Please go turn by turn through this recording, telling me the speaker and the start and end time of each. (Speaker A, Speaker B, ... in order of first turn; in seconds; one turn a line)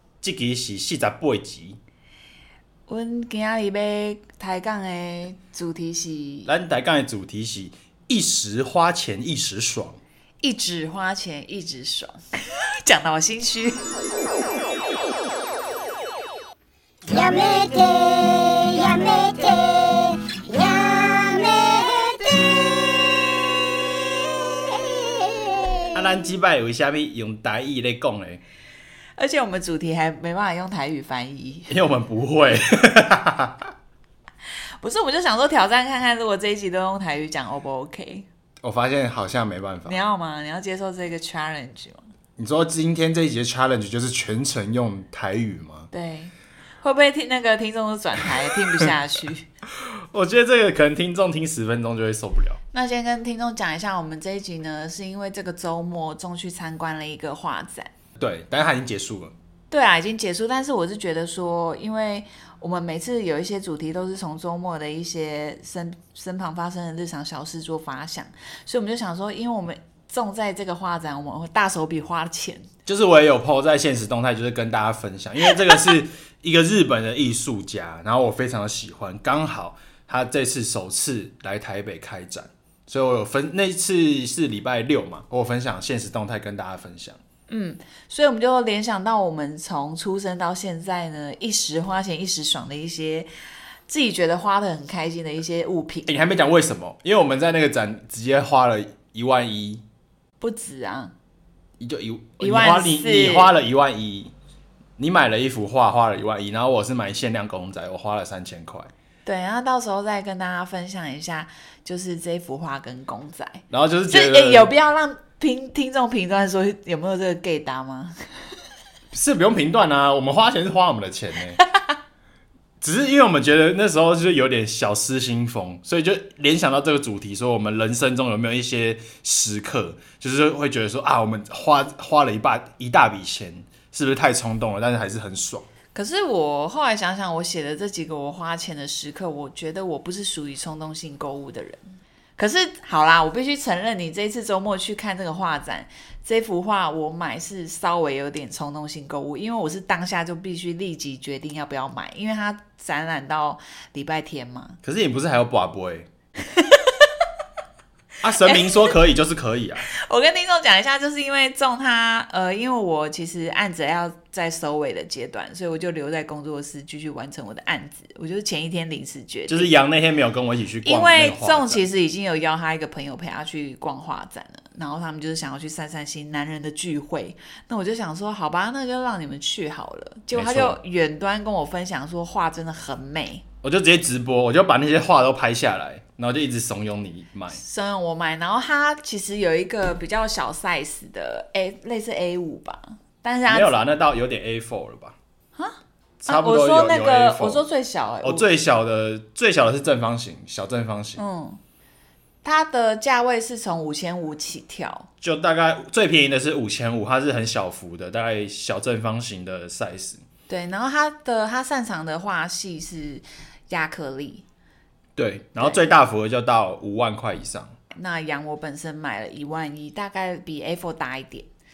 Speaker A: 0.2-1.8
Speaker B: 2.9-6.5
Speaker A: 6.5-10.0
Speaker B: 10.4-13.8
Speaker C: 17.1-23.1
Speaker C: 24.6-25.8
Speaker A: 25.9-28.4
Speaker B: 29.2-31.7
Speaker A: 31.7-33.7
Speaker B: 34.8-38.3
Speaker A: 38.6-40.0
Speaker B: 39.9-42.1
Speaker A: 42.4-45.9
Speaker B: 45.9-49.5
Speaker A: 49.8-52.6
Speaker B: 52.7-57.9
Speaker A: 58.2-59.3
Speaker B: 59.7-72.7
Speaker A: 72.8-87.2
Speaker B: 75.5-76.0
Speaker B: 87.5-93.3
Speaker B: 93.9-96.1
Speaker A: 96.1-99.8
Speaker B: 100.4-101.1
Speaker A: 101.8-104.3
Speaker B: 102.4-103.5
Speaker A: 105.0-108.9
Speaker B: 109.2-118.2
Speaker A: 113.7-114.7
Speaker A: 119.1-121.6
Speaker A: 122.8-135.7
Speaker B: 135.9-141.8
Speaker B: 142.4-154.8
Speaker A: 154.8-156.1
Speaker B: 156.4-157.3
Speaker A: 158.2-159.9
Speaker B: 158.3-159.0
Speaker B: 159.9-169.7
Speaker A: 169.5-171.8
Speaker B: 170.8-183.4
Speaker A: 180.3-180.8
Speaker A: 183.6-187.6
Speaker B: 187.5-193.8
Speaker A: 193.5-195.2
Speaker B: 195.6-198.5
Speaker A: 196.2-197.6
Speaker A: 198.2-201.2
Speaker B: 201.2-201.6
Speaker B: 202.4-205.1
Speaker A: 205.2-210.2
Speaker B: 210.5-214.4
Speaker A: 215.2-217.7
Speaker B: 217.9-221.5